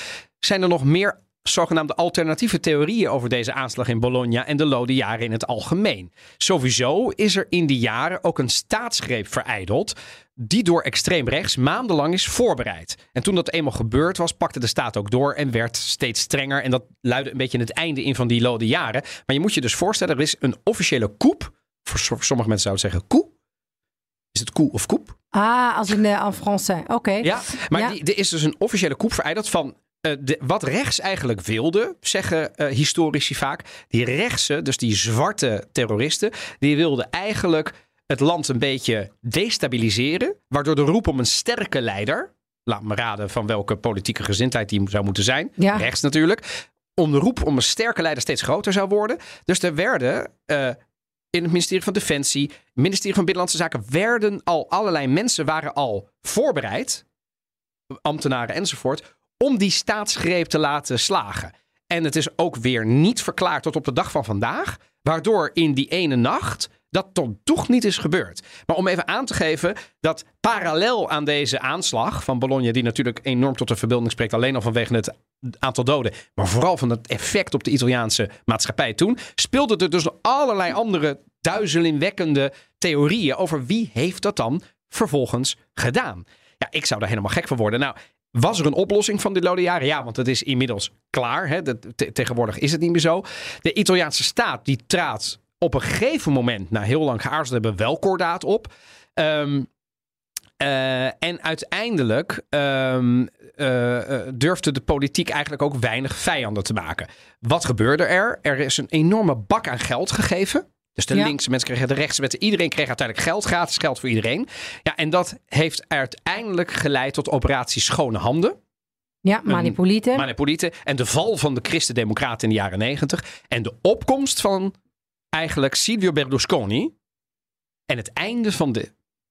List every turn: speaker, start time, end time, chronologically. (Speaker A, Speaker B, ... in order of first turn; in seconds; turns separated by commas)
Speaker A: 0.4-23.3, Speaker A: 24.3-25.1, Speaker B: 25.3-27.9, Speaker A: 27.2-46.5, Speaker B: 45.6-45.9, Speaker A: 47.0-50.8, Speaker A: 51.3-57.0, Speaker A: 58.0-99.7, Speaker A: 100.6-118.6, Speaker B: 119.2-120.3, Speaker A: 119.5-124.7, Speaker A: 125.3-126.9, Speaker A: 127.9-128.9